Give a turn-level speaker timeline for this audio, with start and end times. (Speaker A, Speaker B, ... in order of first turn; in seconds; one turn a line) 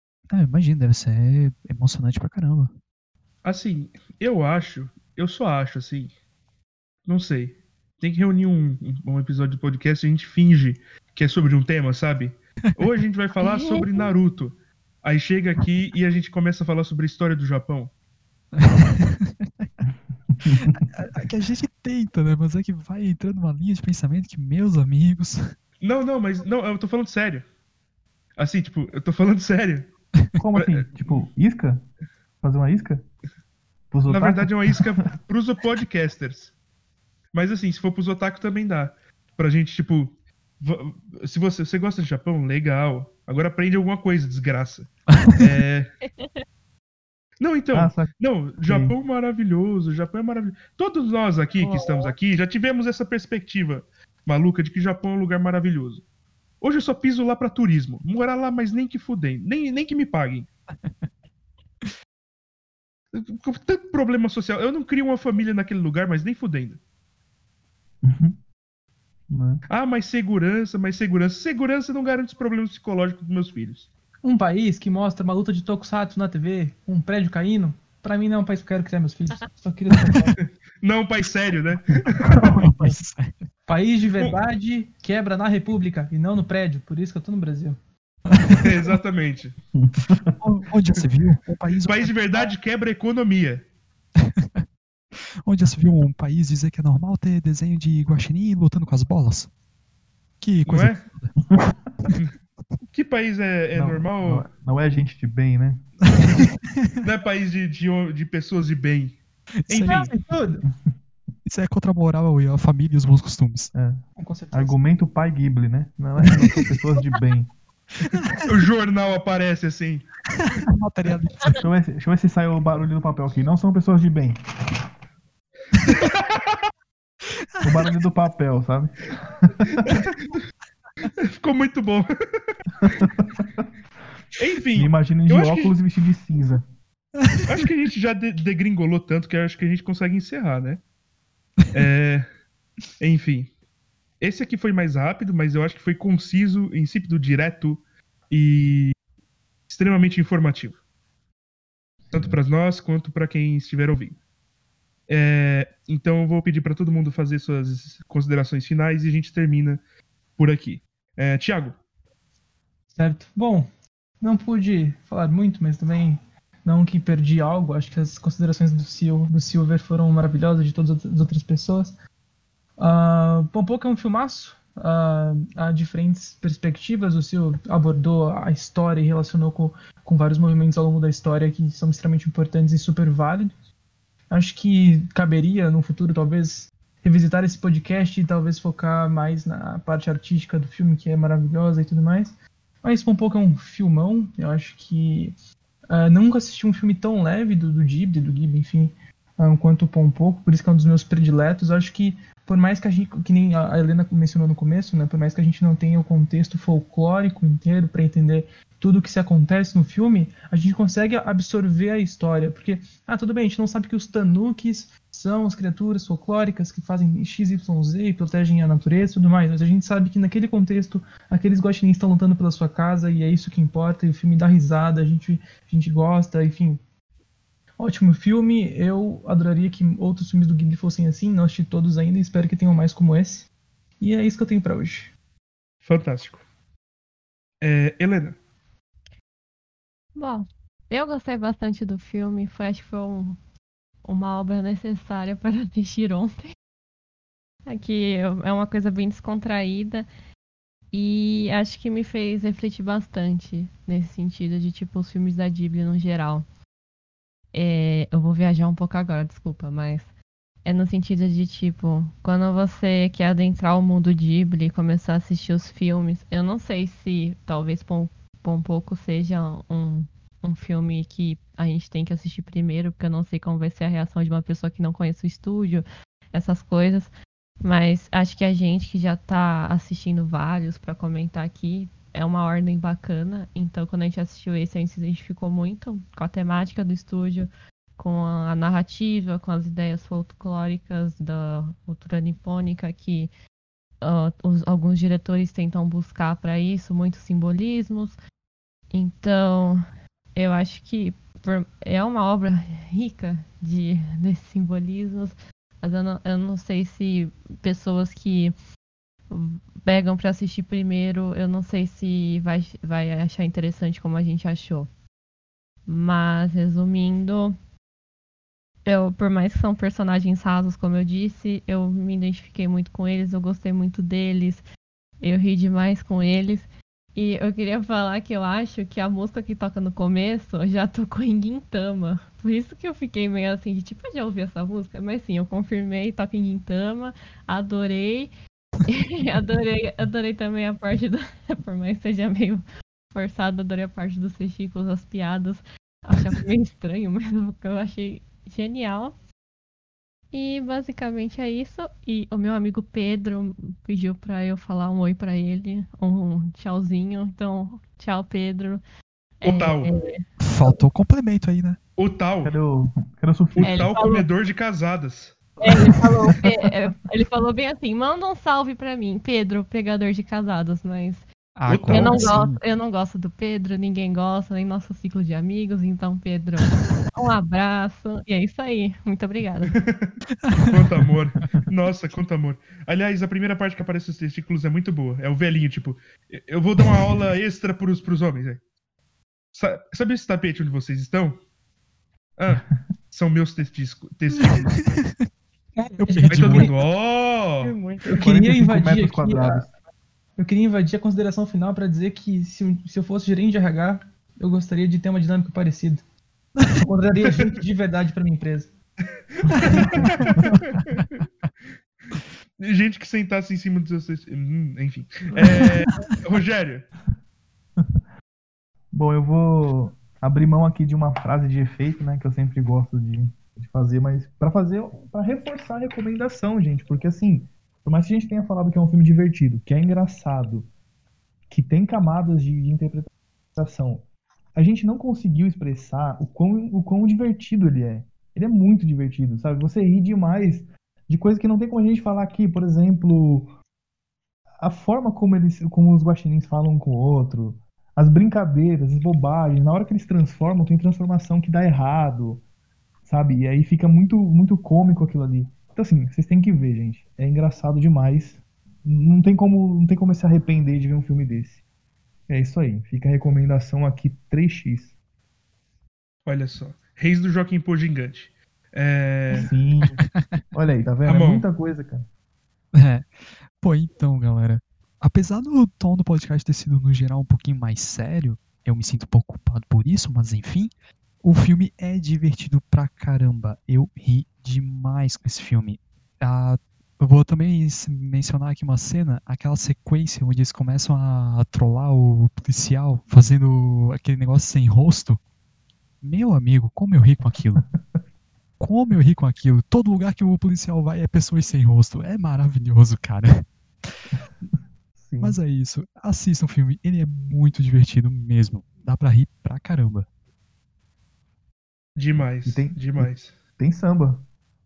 Speaker A: 0.3-2.7
Speaker B: 3.4-6.1
Speaker B: 7.0-17.9
Speaker C: 13.4-14.0
Speaker A: 18.5-19.7
Speaker D: 20.4-20.8
Speaker A: 20.5-25.5
Speaker B: 25.8-27.4
Speaker B: 28.4-29.9
Speaker D: 30.4-31.8
Speaker B: 30.5-31.2
Speaker D: 32.4-33.0
Speaker D: 33.9-34.8
Speaker B: 34.0-36.5
Speaker B: 37.3-45.9
Speaker C: 46.1-46.4
Speaker B: 47.4-56.0
Speaker D: 47.7-48.9
Speaker B: 56.6-60.5
Speaker B: 63.1-66.8
Speaker D: 68.0-68.4
Speaker D: 69.3-69.6
Speaker B: 69.7-73.9
Speaker E: 74.2-80.4
Speaker A: 80.0-80.2
Speaker B: 80.4-82.7
Speaker A: 82.3-83.4
Speaker E: 83.7-87.8
Speaker A: 88.3-88.9
Speaker B: 88.5-89.6
Speaker D: 89.7-90.3
Speaker A: 90.4-92.1
Speaker B: 91.8-93.6
Speaker A: 94.2-94.6
Speaker A: 95.4-99.5
Speaker A: 100.4-101.3
Speaker B: 100.6-101.0
Speaker B: 102.9-104.5
Speaker D: 103.7-105.8
Speaker A: 106.1-106.7
Speaker B: 107.0-109.2
Speaker A: 109.7-109.9
Speaker B: 109.7-110.1
Speaker E: 109.8-110.6
Speaker A: 111.5-113.7
Speaker D: 113.7-117.5
Speaker E: 114.2-114.8
Speaker A: 116.2-116.7
Speaker A: 118.0-118.3
Speaker B: 118.5-120.1
Speaker A: 120.4-121.6
Speaker D: 121.6-124.3
Speaker B: 125.9-126.6
Speaker D: 127.6-129.9
Speaker B: 129.8-130.4
Speaker B: 131.2-132.5
Speaker D: 132.8-133.6
Speaker B: 134.3-135.7
Speaker D: 134.7-136.6
Speaker B: 137.4-140.8
Speaker B: 141.7-142.3
Speaker B: 143.0-143.5
Speaker B: 144.2-148.9
Speaker B: 149.7-150.8
Speaker D: 152.0-152.4
Speaker B: 152.1-154.2
Speaker B: 155.1-159.8
Speaker B: 160.4-161.8
Speaker E: 162.9-163.7
Speaker E: 164.2-171.9
Speaker E: 172.8-183.5
Speaker E: 184.3-195.3
Speaker E: 195.9-226.8
Speaker E: 227.8-235.1
Speaker B: 235.8-236.4
Speaker B: 237.6-238.4
Speaker C: 240.2-243.3
Speaker C: 244.0-246.5
Speaker C: 247.7-250.1
Speaker C: 250.9-256.4
Speaker C: 257.5-260.1
Speaker C: 260.6-277.1
Speaker C: 277.6-293.3
Speaker C: 294.0-298.2
Speaker C: 298.9-299.8
Speaker C: 300.3-308.5
Speaker C: 309.3-314.9
Speaker C: 315.9-317.5
Speaker C: 318.8-324.6
Speaker C: 325.2-338.3
Speaker C: 338.9-349.1
Speaker C: 350.3-358.8
Speaker C: 359.4-360.2
Speaker B: 359.4-359.9
Speaker A: 360.4-361.8
Speaker B: 362.0-362.5
Speaker D: 362.4-363.9
Speaker B: 363.5-365.4
Speaker C: 363.6-364.3
Speaker C: 365.6-371.2
Speaker A: 371.5-372.6
Speaker B: 371.7-372.3
Speaker C: 371.9-379.8
Speaker B: 379.7-388.6
Speaker A: 380.4-380.8
Speaker B: 389.5-391.4
Speaker B: 392.4-394.9
Speaker A: 394.4-395.1
Speaker E: 395.8-396.7
Speaker A: 396.0-396.7
Speaker B: 396.2-397.7
Speaker E: 397.6-399.7
Speaker D: 398.1-399.7
Speaker E: 400.4-406.0
Speaker E: 406.7-408.7
Speaker B: 409.3-411.2
Speaker A: 409.6-411.0
Speaker B: 412.6-416.9
Speaker A: 415.4-415.9
Speaker D: 418.9-430.7
Speaker D: 431.5-434.0
Speaker D: 434.5-443.5
Speaker D: 444.6-452.4
Speaker D: 453.0-461.6
Speaker D: 462.3-464.9
Speaker B: 466.2-469.5
Speaker D: 469.3-470.0
Speaker A: 470.0-470.4
Speaker D: 470.5-472.1
Speaker B: 471.0-471.4
Speaker A: 472.7-495.2
Speaker A: 496.0-497.7
Speaker D: 497.6-498.0
Speaker A: 498.6-503.4
Speaker D: 504.9-505.4
Speaker A: 505.2-510.1
Speaker B: 511.9-513.3
Speaker D: 512.5-514.2